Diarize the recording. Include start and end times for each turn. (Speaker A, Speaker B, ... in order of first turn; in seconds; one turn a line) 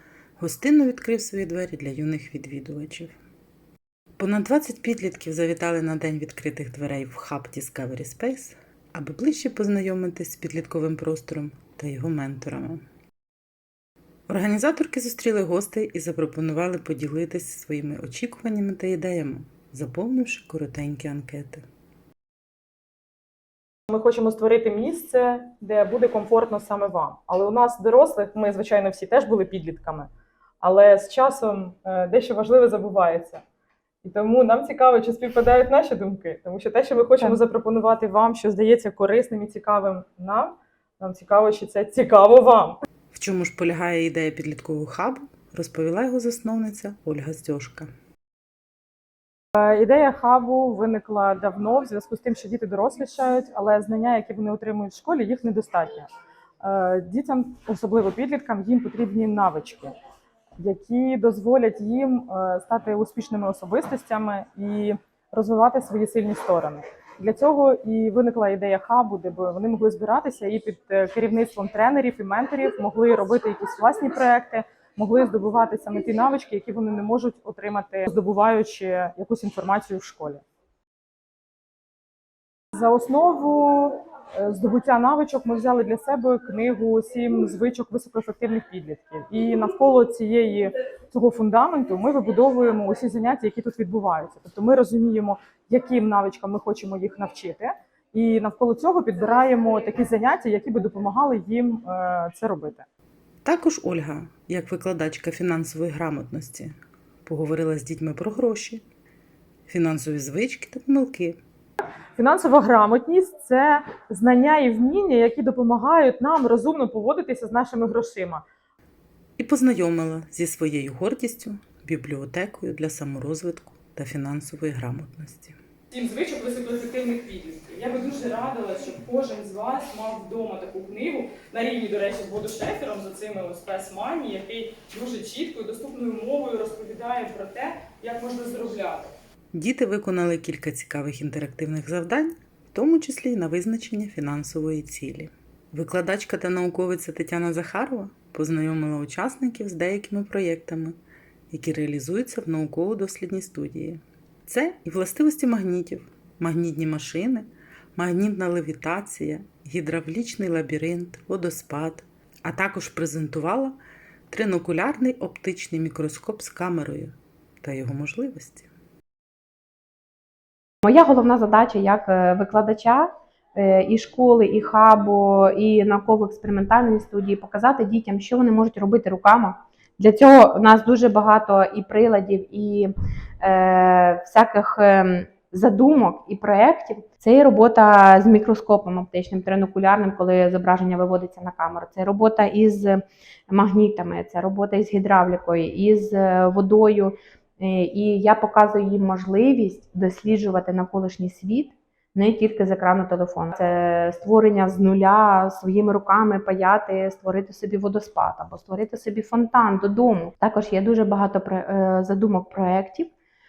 Speaker A: 0.4-3.2
Speaker A: 4.2-12.8
Speaker A: 14.3-21.6
Speaker B: 23.9-33.4
Speaker B: 34.0-42.8
Speaker A: 43.1-47.9
Speaker B: 49.5-56.1
Speaker B: 56.6-60.0
Speaker B: 60.6-80.4
Speaker B: 82.7-102.8
Speaker A: 103.4-106.7
Speaker A: 107.2-108.8
Speaker A: 109.7-111.4
Speaker B: 112.2-118.4
Speaker A: 119.4-125.5
Speaker B: 125.9-139.1
Speaker A: 139.5-151.0
Speaker A: 151.5-163.8
Speaker A: 164.3-168.7
Speaker C: 170.8-213.1